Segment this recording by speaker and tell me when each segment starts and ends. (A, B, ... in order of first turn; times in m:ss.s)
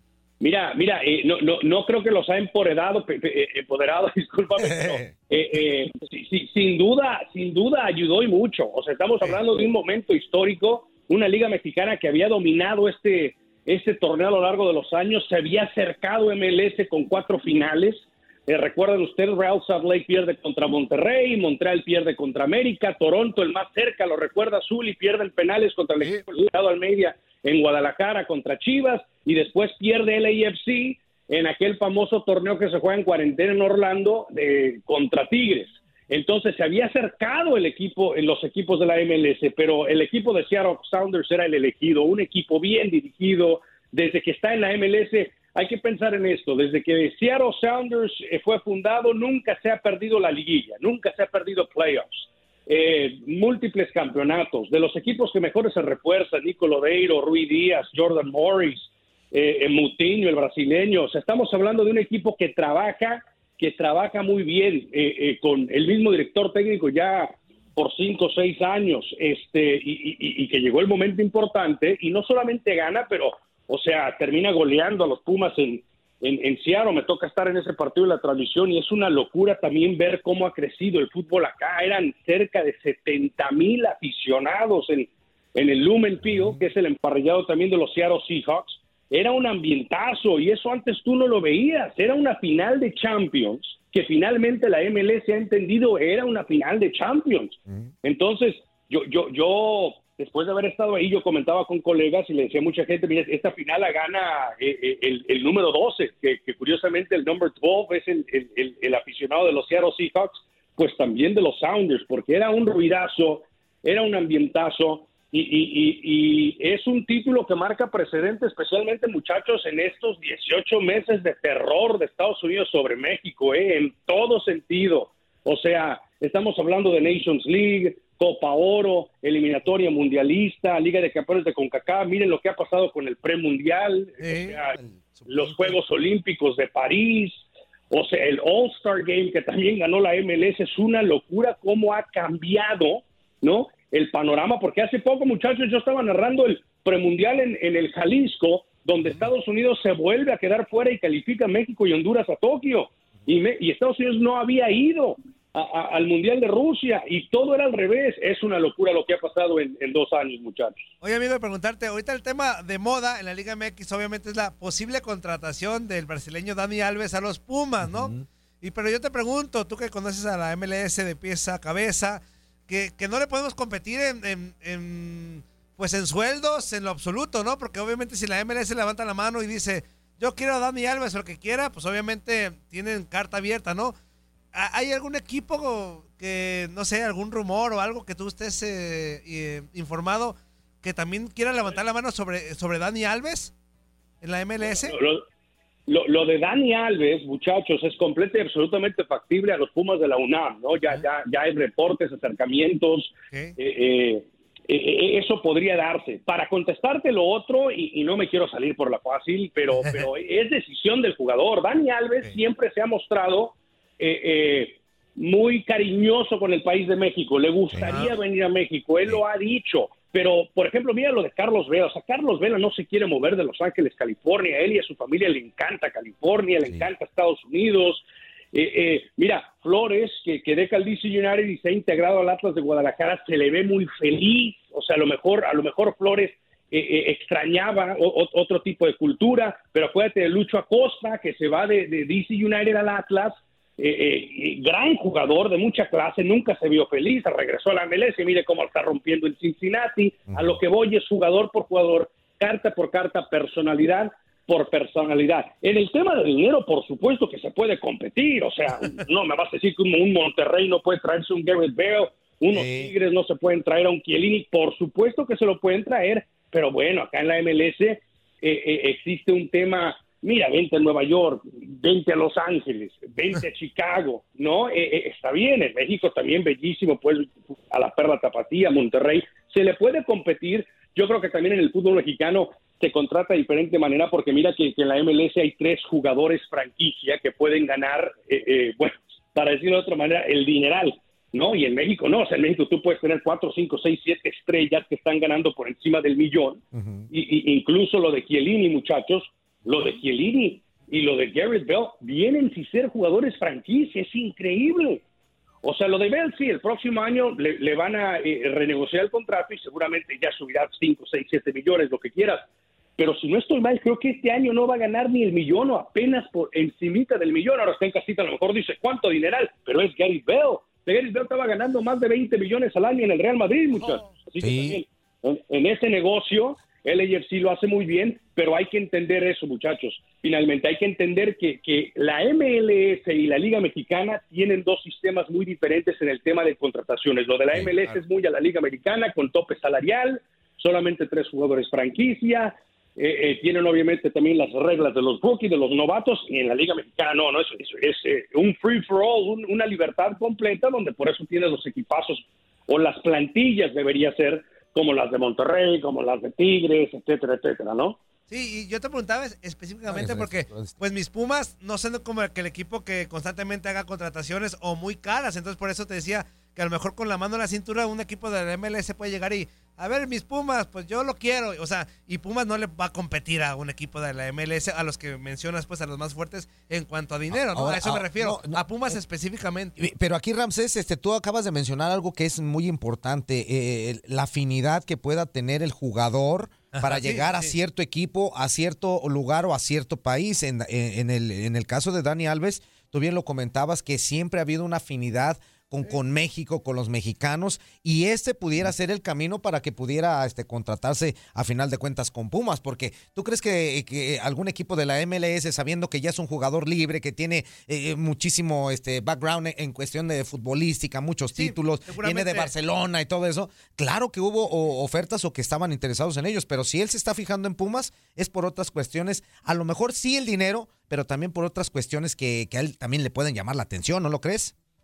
0:00.4-2:14.8 A
0:04.6-0:05.1 B
2:14.2-2:14.6 C
2:14.8-2:15.7 B
2:15.3-2:40.9 A
2:41.0-3:03.9 C
2:47.8-2:48.2 B
3:04.5-3:13.5 C
3:14.2-3:15.0 C
3:14.6-3:15.2 A
3:15.9-5:05.0 A
3:37.8-3:38.1 C
3:46.6-3:46.9 B
4:10.3-4:10.6 B
4:22.5-4:22.9 B
4:56.7-4:57.1 B
5:05.6-5:12.4 A
5:13.0-5:58.0 A
5:24.4-5:24.8 B
5:58.3-6:19.7 C
5:59.9-6:00.8 B
6:17.3-6:19.0 B
6:19.8-7:04.5 B
6:26.7-6:27.5 C
6:51.3-6:52.5 C